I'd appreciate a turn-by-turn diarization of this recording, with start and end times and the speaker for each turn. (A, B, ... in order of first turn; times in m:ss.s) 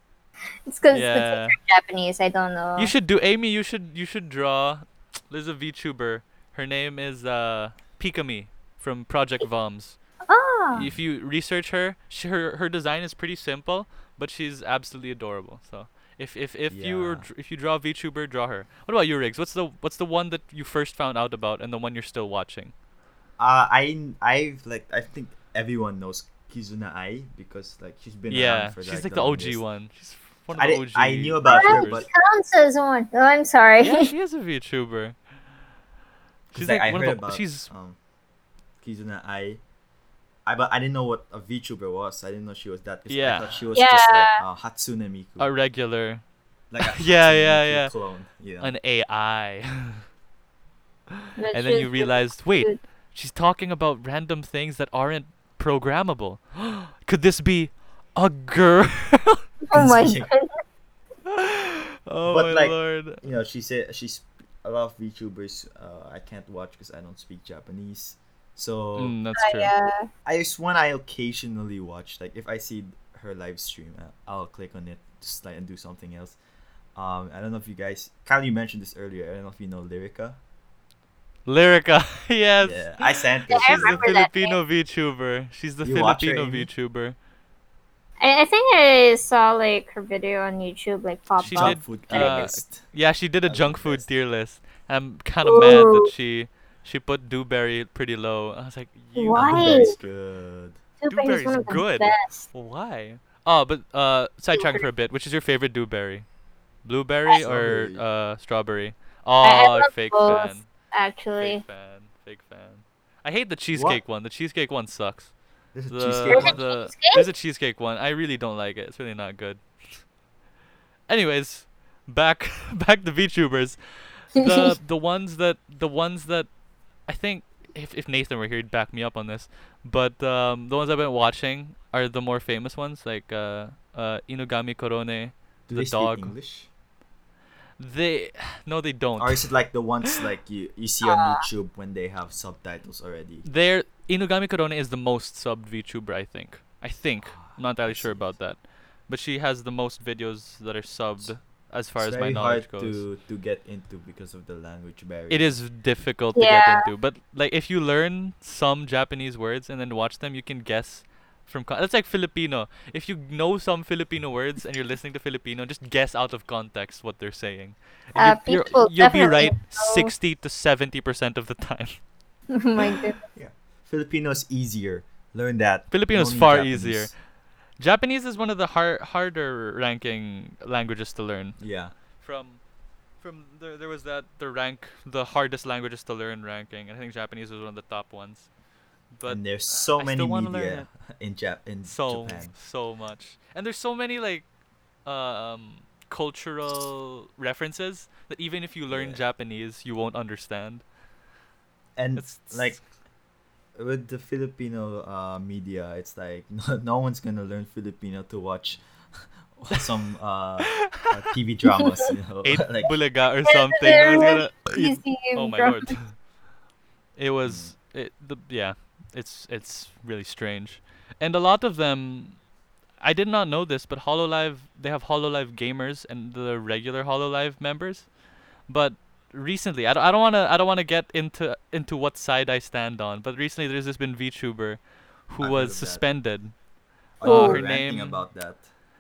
0:00.7-0:02.9 A
0:00.9-0:01.6 B
0:02.8-0:10.0 B
0:10.3-0:10.9 A
0:10.7-0:11.0 C
0:10.8-0:22.7 B
0:16.7-0:17.3 C
0:23.4-0:29.6 C
0:28.3-0:32.0 B
0:30.5-0:32.1 C
0:31.5-0:34.1 A
0:33.8-0:35.2 B
0:36.5-0:38.0 C
0:36.5-0:37.7 B
0:38.8-0:39.6 C
0:40.5-0:45.5 C
0:43.1-0:43.6 B
0:43.7-0:44.4 A
0:45.4-0:46.2 B
0:46.7-0:48.7 C
0:46.8-0:47.9 B
0:48.6-0:50.0 B
0:51.4-0:52.8 A
0:51.5-0:59.4 B
0:59.7-1:00.6 A
0:59.7-1:00.3 C
1:01.3-1:03.2 B
1:02.3-1:09.2 C
1:09.0-1:09.7 B
1:09.4-1:10.1 A
1:10.2-1:16.4 C
1:17.0-1:20.4 C
1:21.5-1:22.9 B
1:22.6-1:24.0 C
1:23.5-1:24.6 A
1:23.5-1:27.2 B
1:25.8-1:26.7 C
1:28.2-1:32.5 A
1:31.4-1:32.9 C
1:31.4-1:40.0 B
1:33.5-1:34.1 C
1:35.5-1:36.1 A
1:39.2-1:40.0 A
1:39.4-1:40.8 C
1:41.0-1:42.5 A
1:41.1-1:46.3 B
1:44.5-1:44.8 A
1:46.8-1:50.7 B
1:47.4-1:48.0 C
1:49.4-1:51.6 A
1:51.4-1:55.3 B
1:53.7-1:54.0 C
1:55.7-1:56.6 C
1:55.9-1:59.6 B
1:56.3-1:57.2 A
2:01.1-2:06.5 B
2:04.4-2:04.7 A
2:07.1-2:16.3 B
2:15.7-2:16.7 C
2:17.8-2:19.5 B
2:19.2-2:23.5 C
2:21.0-2:21.5 A
2:23.4-2:33.0 B
2:27.2-2:28.4 C
2:32.0-2:35.6 C
2:35.3-2:52.0 B
2:36.4-2:36.9 A
2:48.2-2:50.1 A
2:48.5-2:48.8 C
2:52.5-2:53.2 A
2:53.3-2:57.1 C
2:55.9-2:57.1 B
2:57.8-3:01.6 B
3:01.6-3:01.9 C
3:02.2-3:02.6 B
3:03.2-3:08.5 B
3:09.1-3:10.9 B
3:09.3-3:12.5 C
3:11.8-3:14.5 B
3:15.0-3:20.8 B
3:18.9-3:19.2 C
3:22.0-3:22.8 C
3:22.2-3:22.8 B
3:23.8-3:28.8 C
3:29.6-3:32.9 C
3:30.8-3:31.1 B
3:31.8-3:32.1 A
3:32.4-3:36.2 B
3:33.5-3:36.0 A
3:37.2-3:42.4 B
3:37.4-3:37.7 C
3:43.0-3:48.1 B
3:48.7-3:56.5 B
3:55.4-3:56.0 C
3:57.2-3:58.7 C
3:57.2-3:58.2 B
3:57.2-3:57.6 A